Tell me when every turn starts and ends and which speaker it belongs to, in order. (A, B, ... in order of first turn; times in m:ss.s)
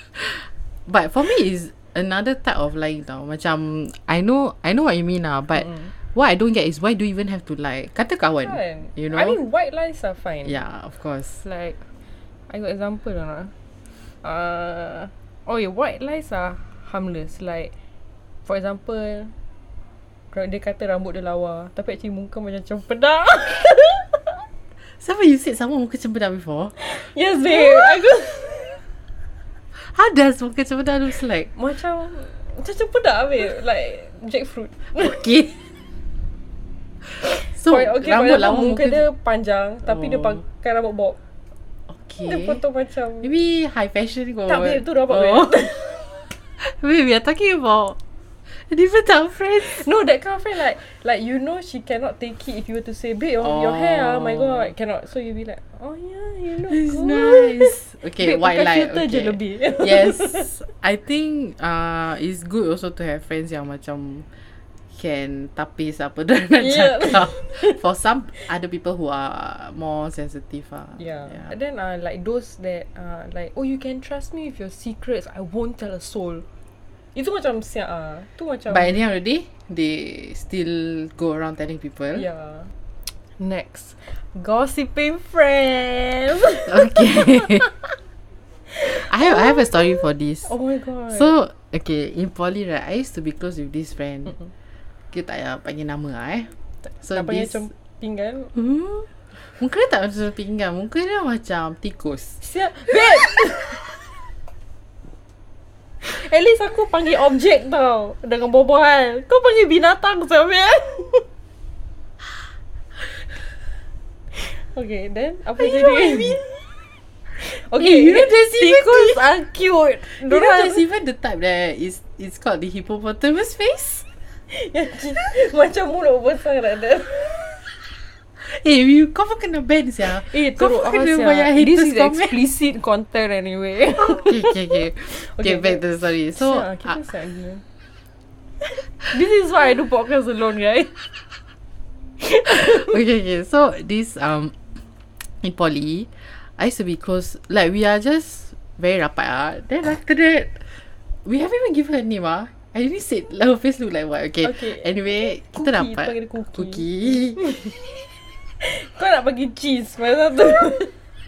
0:00.2-0:09.4 A
0:08.4-0:10.6 B
0:10.4-0:11.4 A
0:11.4-0:11.9 B
0:12.5-0:13.5 B
0:14.2-0:17.7 B
0:18.5-0:19.3 B
0:20.3-0:24.2 B
0:25.0-0:26.8 A
0:26.8-0:28.8 B
0:27.5-0:28.1 A
0:29.7-0:31.5 A
0:31.5-0:35.2 B
0:35.0-0:35.7 A
0:37.1-0:39.0 A
0:37.2-0:41.2 B
0:40.0-0:40.4 A
0:41.9-0:42.6 A
0:42.2-0:43.3 B
0:43.2-0:49.9 A
0:44.5-0:45.9 B
0:49.6-1:00.6 B
0:53.4-0:54.7 A
0:56.7-1:04.3 A
1:04.9-1:11.5 A
1:06.6-1:07.8 B
1:11.0-1:16.4 B
1:17.2-1:19.0 B
1:18.7-1:22.3 A
1:22.2-1:22.7 B
1:23.3-1:27.8 B
1:26.7-1:27.7 A
1:28.7-1:31.3 B
1:28.9-1:30.5 A
1:31.1-1:34.4 A
1:35.1-1:37.7 A
1:37.1-1:38.5 B
1:38.5-1:42.4 A
1:42.4-1:43.9 B
1:46.0-1:51.3 B
1:54.3-1:56.4 B
1:55.6-1:56.4 A
1:57.4-2:00.8 B
1:57.7-1:59.2 A
2:00.0-2:04.1 A
2:04.5-2:07.6 B
2:08.4-2:12.4 A
2:10.2-2:17.6 B
2:14.0-2:17.0 A
2:19.0-2:21.1 B
2:22.2-2:23.0 B
2:22.5-2:37.4 A
2:34.4-2:37.9 B
2:38.6-2:41.0 B